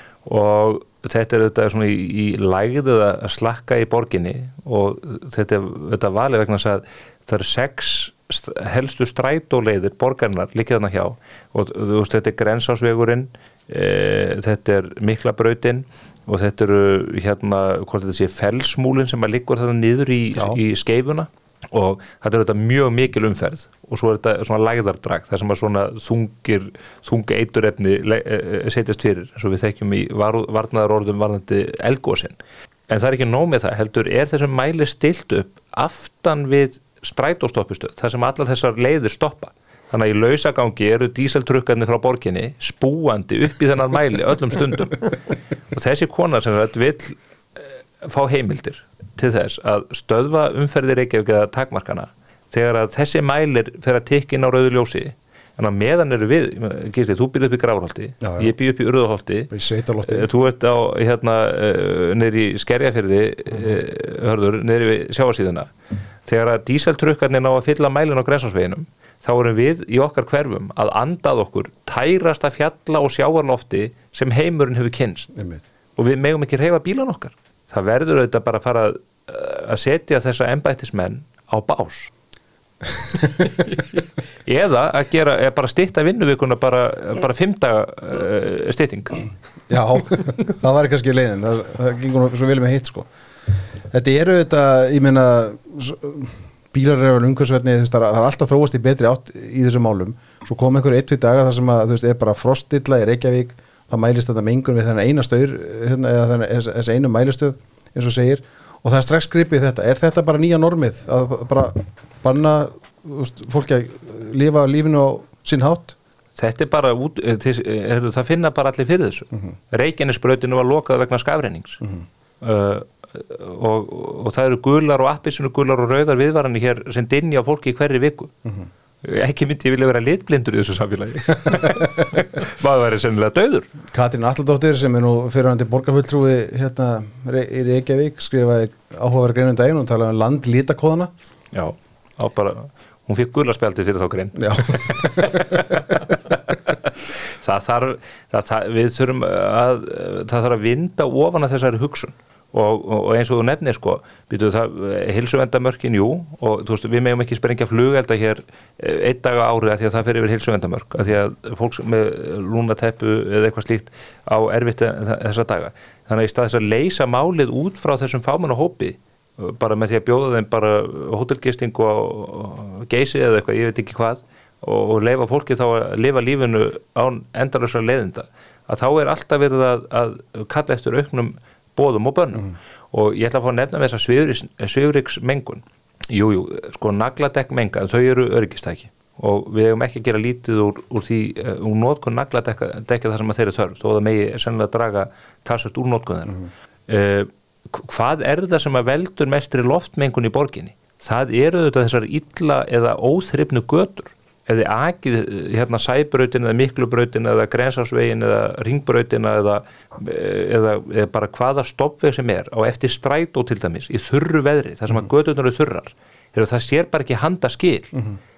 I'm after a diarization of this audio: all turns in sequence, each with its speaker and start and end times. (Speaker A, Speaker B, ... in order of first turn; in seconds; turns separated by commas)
Speaker A: 0.2-32.4, Speaker B: 20.4-20.6, Speaker A: 32.9-45.1, Speaker A: 45.7-59.5, Speaker B: 58.2-58.5, Speaker B: 59.5-60.3, Speaker A: 60.1-65.7, Speaker A: 66.3-75.3, Speaker B: 75.3-75.6, Speaker A: 76.0-82.1, Speaker B: 82.9-83.5, Speaker A: 84.5-89.2, Speaker B: 89.7-93.1, Speaker B: 93.9-116.0, Speaker A: 116.4-121.8, Speaker A: 122.4-128.3, Speaker A: 129.0-133.7, Speaker B: 133.9-141.1, Speaker A: 141.5-217.9, Speaker B: 144.4-145.6